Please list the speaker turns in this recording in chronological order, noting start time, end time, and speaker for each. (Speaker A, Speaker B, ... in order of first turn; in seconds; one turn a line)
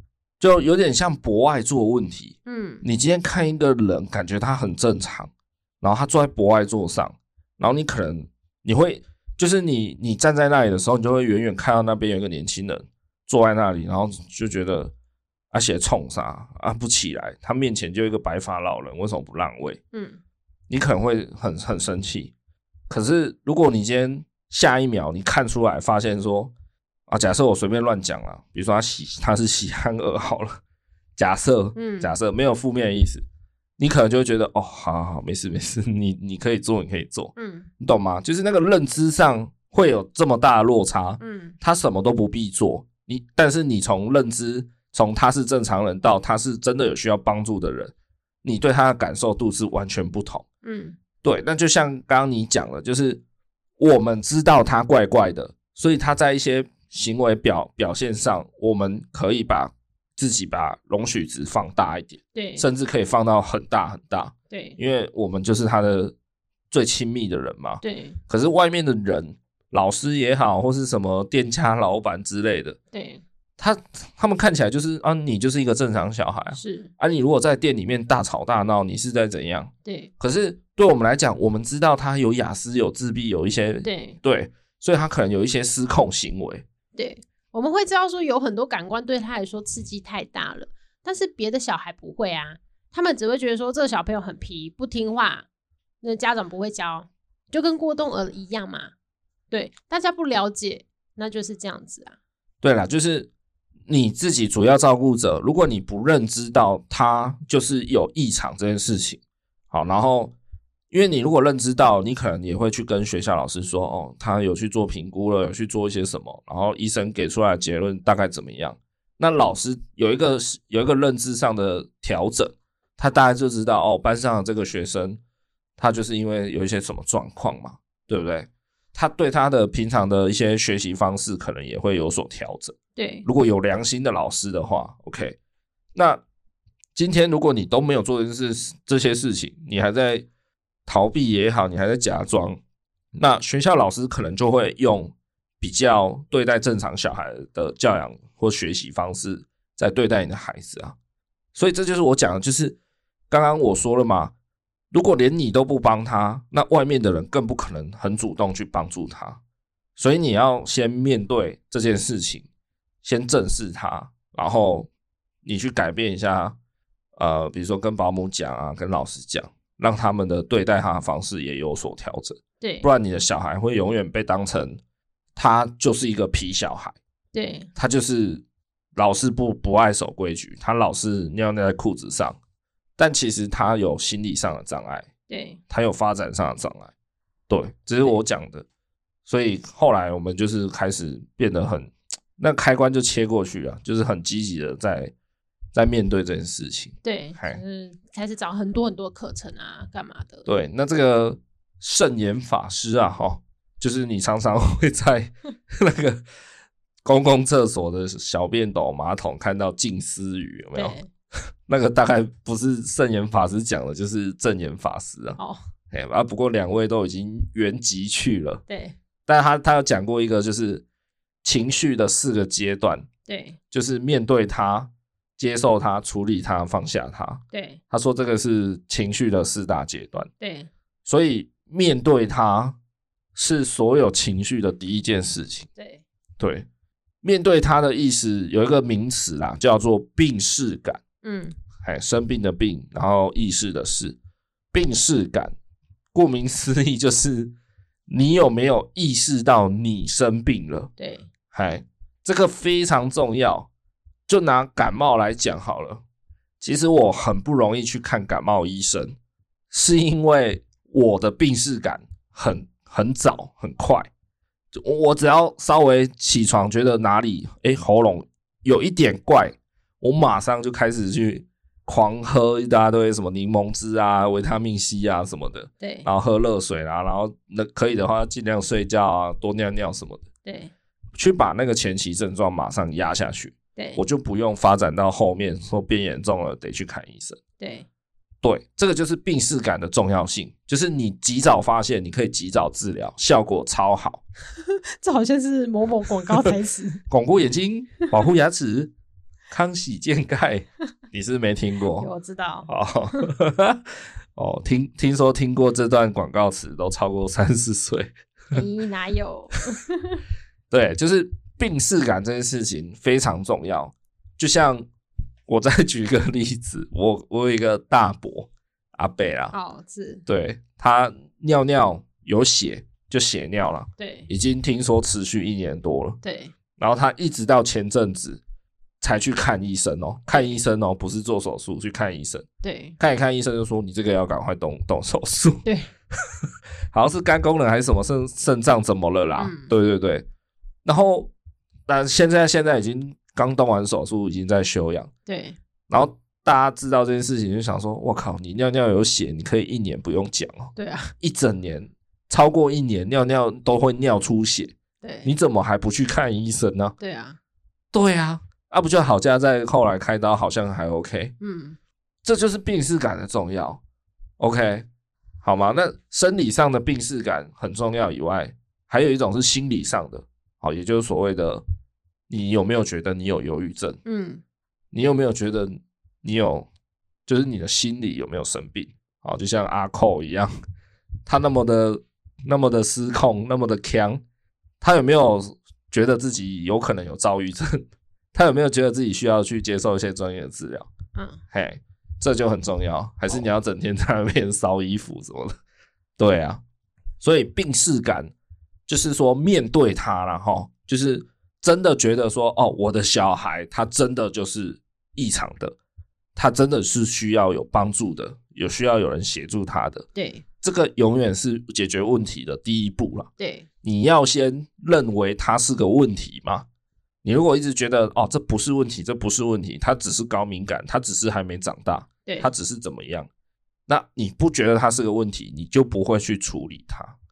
Speaker A: 0.4-14.9
Speaker B: 2.5-2.9
Speaker A: 15.5-19.8
Speaker B: 19.9-20.2
Speaker A: 20.7-22.3
Speaker A: 22.9-26.5
Speaker A: 27.1-30.6
Speaker A: 31.2-33.2
Speaker B: 31.8-32.1
Speaker A: 33.8-47.9
Speaker B: 37.4-37.7
Speaker B: 41.2-41.5
Speaker A: 48.4-50.5
Speaker B: 50.6-51.0
Speaker A: 51.2-53.2
Speaker A: 53.8-66.1
Speaker B: 62.3-62.7
Speaker B: 64.5-64.8
Speaker A: 66.7-72.8
Speaker B: 67.8-68.2
Speaker B: 72.9-73.2
Speaker A: 73.6-86.7
Speaker B: 76.5-76.9
Speaker B: 79.8-80.1
Speaker B: 83.8-84.2
Speaker B: 87.0-95.5
Speaker B: 96.0-98.9
Speaker B: 99.5-102.2
Speaker A: 102.6-103.3
Speaker A: 103.9-109.2
Speaker A: 109.7-110.3
Speaker A: 110.9-125.2
Speaker A: 125.8-135.4
Speaker B: 133.0-133.3
Speaker A: 135.9-136.2
Speaker A: 137.0-140.3
Speaker A: 140.9-142.6
Speaker A: 143.2-151.0
Speaker A: 151.6-152.8
Speaker A: 153.3-154.3
Speaker A: 154.9-159.4
Speaker A: 160.0-162.5
Speaker A: 163.0-164.9
Speaker A: 165.4-166.6
Speaker A: 167.2-174.8
Speaker B: 172.6-172.9
Speaker A: 175.4-177.0
Speaker B: 177.3-177.7
Speaker A: 177.8-178.4
Speaker A: 179.0-182.4
Speaker A: 183.0-185.1
Speaker B: 185.3-185.6
Speaker A: 185.7-186.9
Speaker A: 187.5-188.7
Speaker A: 189.3-195.1
Speaker A: 195.7-197.6
Speaker B: 197.0-200.5
Speaker A: 200.5-206.2
Speaker A: 207.0-211.0
Speaker B: 210.7-211.1
Speaker A: 211.7-215.4
Speaker A: 215.9-218.6
Speaker B: 218.7-219.0
Speaker A: 219.3-220.8
Speaker A: 221.4-223.1
Speaker B: 223.3-223.6
Speaker A: 223.7-230.3
Speaker B: 227.5-227.8
Speaker B: 230.4-230.7
Speaker A: 231.1-232.8
Speaker A: 233.3-235.7
Speaker B: 235.8-236.0
Speaker A: 236.4-236.7
Speaker A: 237.2-241.0
Speaker B: 241.2-241.6
Speaker A: 241.8-244.2
Speaker A: 244.7-245.5
Speaker A: 246.1-247.5
Speaker A: 248.1-250.9
Speaker B: 251.0-251.3
Speaker A: 251.5-253.7
Speaker A: 254.3-256.0
Speaker A: 256.6-259.2
Speaker A: 259.7-264.1
Speaker A: 264.7-280.2
Speaker B: 275.8-276.1
Speaker B: 280.4-280.7
Speaker A: 281.1-287.4
Speaker B: 283.8-284.0
Speaker B: 287.6-287.9
Speaker A: 288.4-294.2
Speaker B: 294.6-297.0
Speaker A: 297.1-298.9
Speaker A: 299.5-302.1
Speaker B: 302.0-303.3
Speaker A: 302.7-303.8
Speaker A: 304.4-308.6
Speaker B: 308.5-310.2
Speaker A: 310.7-314.9
Speaker A: 315.5-319.5
Speaker B: 319.5-320.2
Speaker A: 320.3-326.2
Speaker B: 324.0-324.3
Speaker B: 326.2-326.5
Speaker A: 326.8-328.4
Speaker A: 329.0-332.4
Speaker B: 330.3-330.6
Speaker B: 332.6-333.0
Speaker A: 333.0-335.6
Speaker A: 336.9-340.3
Speaker B: 339.4-339.7
Speaker A: 340.9-341.3
Speaker A: 341.9-345.1
Speaker B: 345.3-345.6
Speaker A: 345.9-356.9
Speaker B: 350.8-351.1
Speaker B: 355.0-355.3
Speaker B: 357.0-357.4
Speaker A: 357.9-361.3
Speaker B: 361.4-361.8
Speaker A: 362.2-363.8
Speaker A: 364.4-364.9
Speaker A: 365.4-371.6
Speaker A: 372.3-374.0
Speaker B: 374.1-374.4
Speaker A: 374.9-376.7
Speaker A: 377.3-380.5
Speaker A: 381.3-384.2
Speaker A: 384.8-390.9
Speaker B: 391.1-391.4
Speaker A: 391.5-395.6
Speaker A: 396.2-396.6
Speaker A: 397.2-398.3
Speaker A: 398.9-405.8
Speaker A: 406.4-410.1
Speaker B: 410.1-410.4
Speaker A: 410.6-413.3
Speaker B: 413.4-413.7
Speaker A: 413.8-416.6
Speaker A: 417.2-423.3
Speaker A: 423.9-427.2